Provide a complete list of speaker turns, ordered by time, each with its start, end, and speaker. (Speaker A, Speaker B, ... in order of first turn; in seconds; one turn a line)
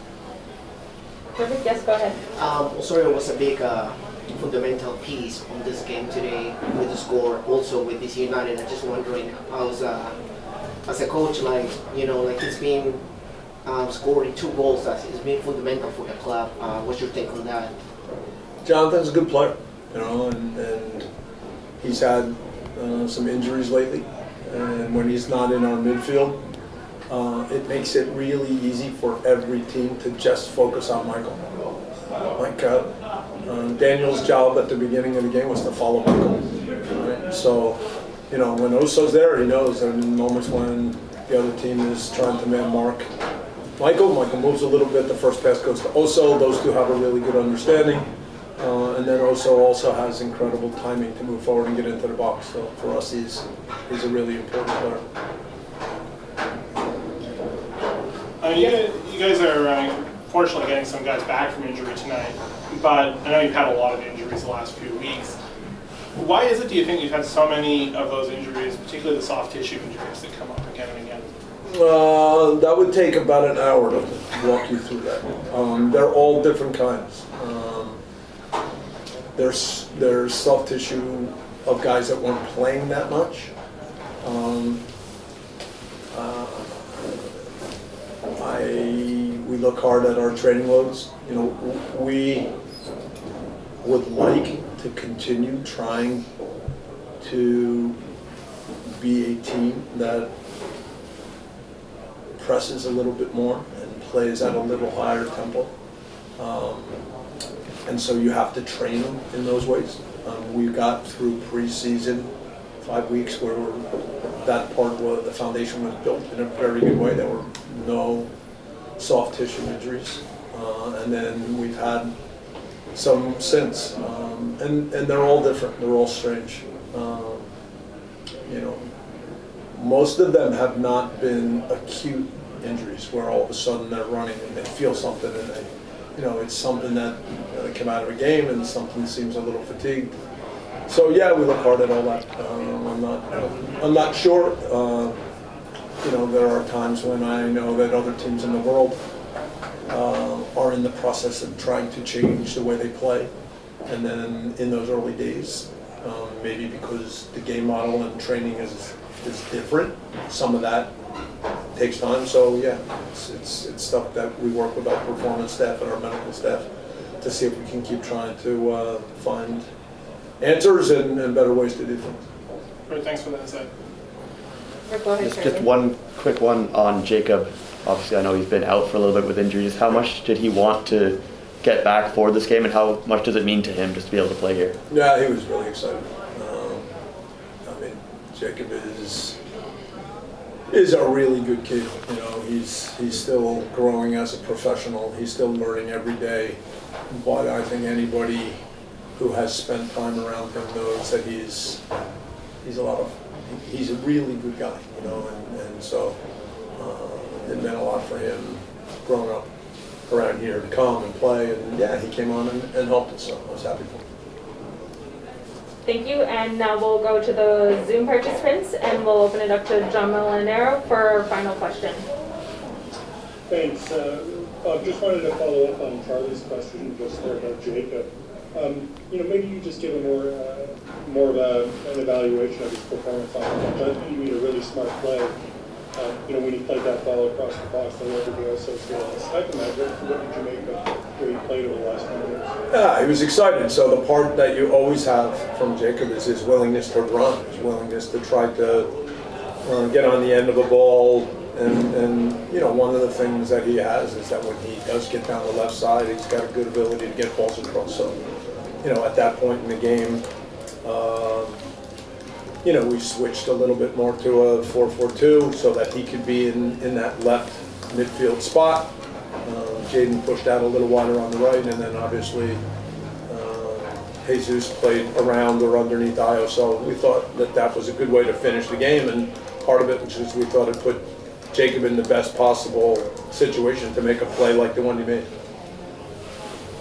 Speaker A: 1.4-2.2
Speaker B: 2.4-10.2
Speaker B: 10.8-13.0
Speaker B: 13.6-17.7
Speaker C: 18.6-21.1
Speaker C: 21.8-26.4
Speaker C: 27.1-31.4
Speaker C: 32.3-32.9
Speaker C: 33.5-43.1
Speaker C: 43.8-55.0
Speaker D: 58.4-65.4
Speaker D: 66.1-71.3
Speaker C: 71.7-78.0
Speaker C: 79.3-83.5
Speaker C: 84.2-84.8
Speaker C: 86.1-87.3
Speaker C: 88.4-92.5
Speaker C: 93.8-96.3
Speaker C: 97.2-98.0
Speaker C: 98.8-100.3
Speaker C: 102.4-105.7
Speaker C: 106.4-107.0
Speaker C: 107.8-112.3
Speaker C: 112.8-118.3
Speaker C: 119.0-122.1
Speaker C: 122.9-127.5
Speaker C: 128.4-128.9
Speaker C: 129.7-140.2
Speaker C: 140.9-145.2
Speaker C: 146.0-149.0
Speaker C: 149.9-153.3
Speaker C: 153.8-160.9
Speaker C: 161.7-166.7
Speaker C: 167.2-169.7
Speaker C: 170.4-172.2
Speaker D: 172.9-173.7
Speaker A: 174.9-175.7
Speaker E: 175.2-184.8
Speaker C: 184.9-186.9
Speaker C: 187.6-189.4
Speaker C: 190.7-198.6
Speaker C: 199.2-201.8
Speaker C: 202.6-206.2
Speaker C: 206.8-209.5
Speaker C: 210.1-214.0
Speaker A: 215.8-222.0
Speaker F: 223.5-235.4
Speaker F: 235.9-242.6
Speaker C: 242.7-248.9
Speaker C: 249.6-258.2
Speaker C: 258.8-260.2
Speaker C: 260.8-261.6
Speaker C: 262.6-272.6
Speaker C: 273.3-285.3